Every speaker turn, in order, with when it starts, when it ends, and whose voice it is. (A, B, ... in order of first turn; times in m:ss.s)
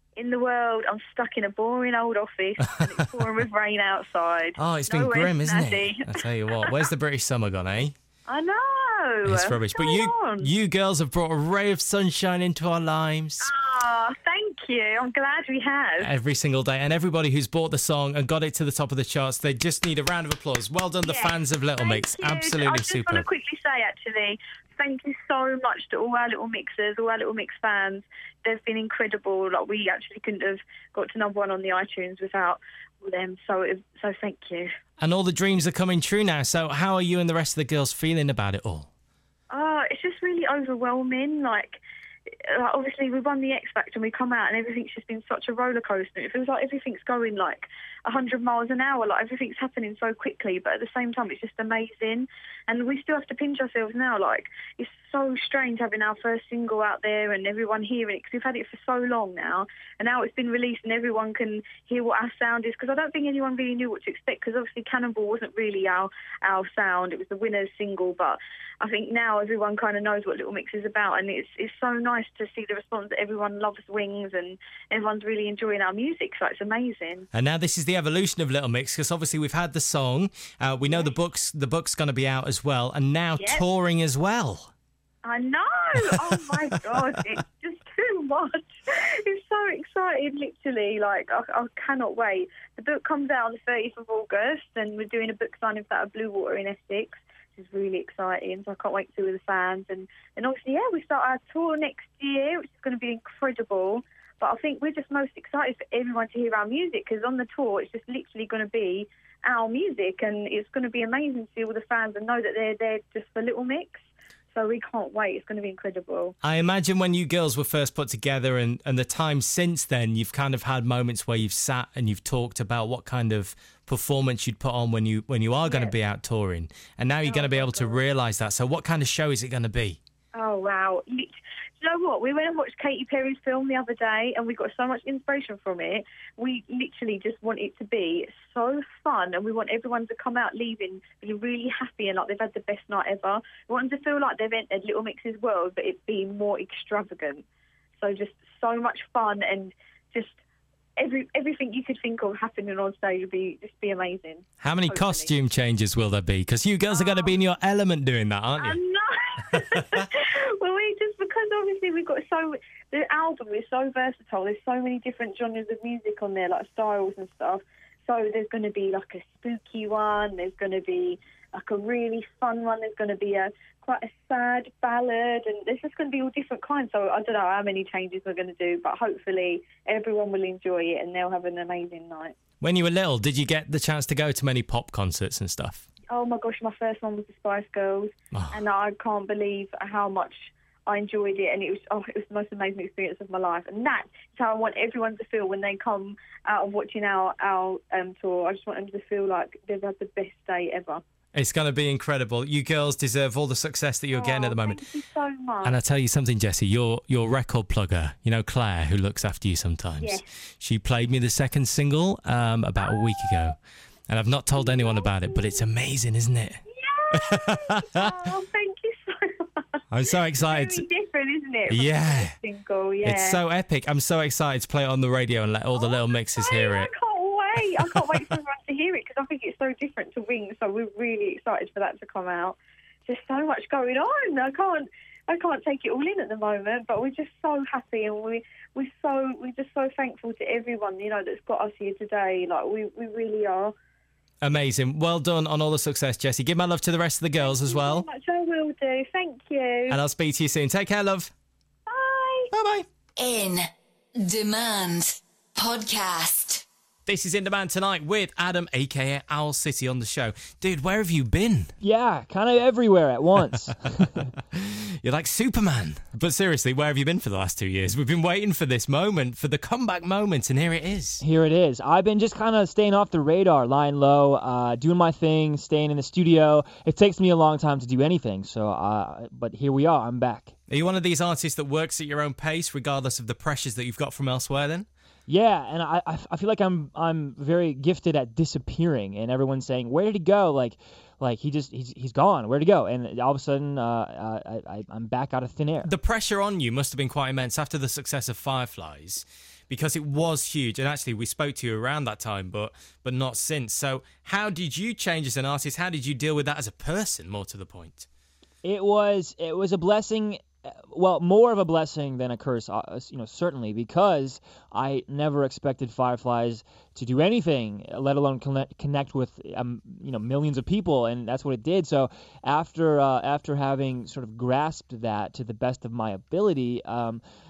0:00.2-0:06.1 A
0:02.8-0:03.1 B
0:04.6-0:07.9 B
0:08.3-0:10.5 A
0:09.2-0:13.5 B
0:13.4-0:16.1 A
0:16.0-0:23.3 B
0:21.0-0:34.7 A
0:35.0-0:38.9 B
0:39.5-0:41.8 A
0:42.5-1:17.3 A
1:17.3-1:24.7 B
1:20.9-1:21.1 A
1:23.4-1:23.6 A
1:25.2-1:28.7 A
1:26.1-1:27.0 B
1:29.2-1:54.0 A
1:54.5-1:56.3 A
1:56.4-2:10.0 B
2:05.7-2:05.9 A
2:07.2-2:08.0 A
2:10.4-2:27.4 A
2:28.0-2:30.4 A
2:31.0-2:35.3 A
2:34.6-2:38.8 B
2:36.9-2:37.3 A
2:38.6-3:02.4 A
3:02.6-3:05.9 B
3:06.1-3:21.0 A
3:08.3-3:08.6 B
3:21.3-3:24.8 B
3:24.1-3:25.8 A
3:25.6-3:33.6 B
3:32.8-3:33.5 A
3:34.1-3:36.6 B
3:34.6-3:35.5 A
3:36.7-3:39.7 A
3:37.2-3:38.1 B
3:39.9-3:40.8 B
3:40.4-3:43.4 A
3:41.7-3:42.4 B
3:43.0-3:46.9 B
3:45.8-4:03.7 A
3:47.8-3:48.4 B
4:04.4-4:08.0 B
4:07.4-4:10.0 A
4:09.9-4:11.3 B
4:11.9-4:12.5 A
4:12.5-4:12.9 B
4:13.2-4:13.6 C
4:14.2-4:16.6 C
4:17.1-4:21.7 B
4:21.8-4:24.3 D
4:24.5-4:31.2 B
4:31.2-4:40.5 D
4:40.7-4:44.9 B
4:45.3-4:55.9 D
4:55.8-5:08.1 B
5:08.6-5:27.2 D